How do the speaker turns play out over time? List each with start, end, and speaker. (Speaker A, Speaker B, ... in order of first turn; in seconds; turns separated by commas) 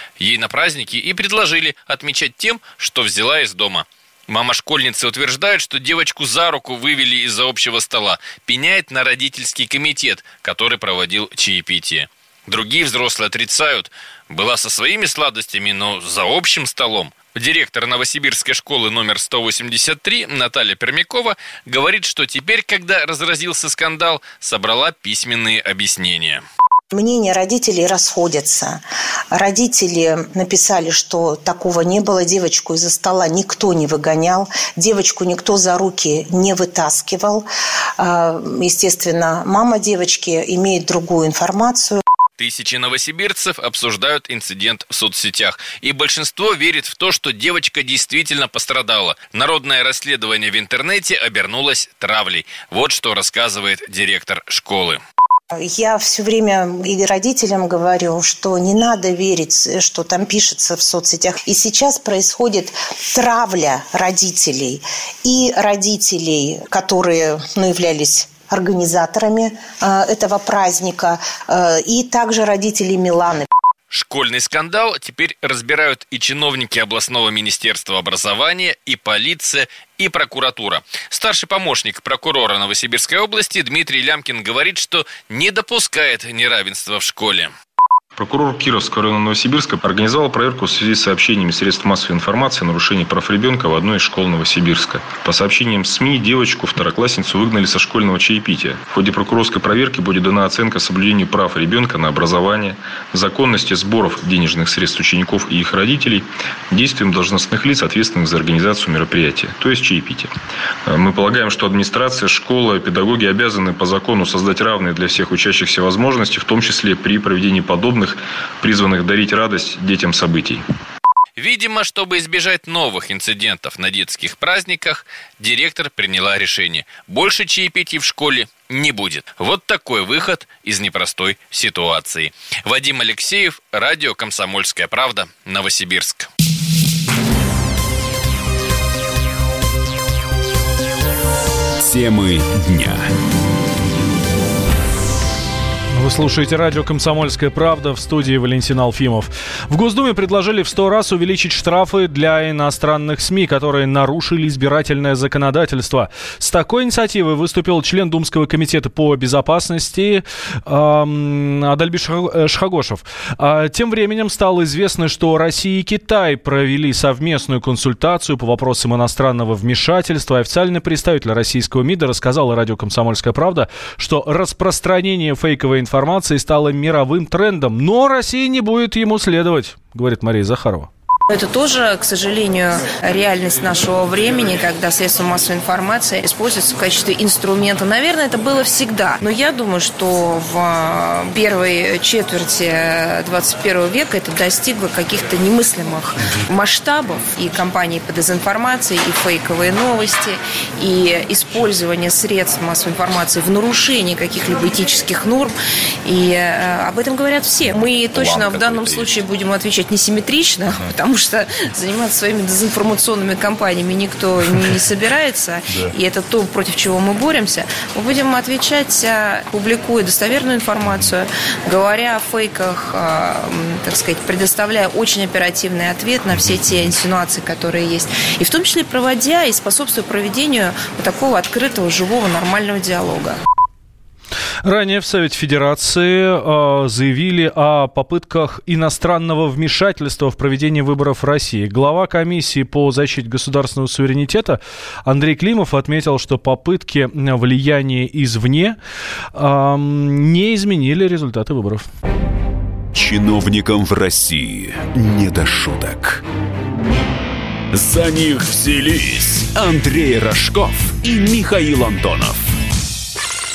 Speaker A: 0.2-26.4, Speaker B: 26.9-28.8, Speaker B: 29.3-37.5, Speaker B: 38.0-42.0, Speaker A: 42.4-55.0, Speaker B: 55.5-73.5, Speaker A: 73.9-87.5, Speaker C: 88.2-110.3, Speaker C: 110.9-120.6, Speaker A: 121.4-136.3, Speaker D: 141.8-143.1, Speaker E: 145.9-180.9, Speaker F: 181.3-205.5, Speaker F: 206.1-233.4, Speaker E: 234.6-248.8, Speaker E: 249.3-251.8, Speaker D: 252.9-256.2, Speaker D: 257.7-262.5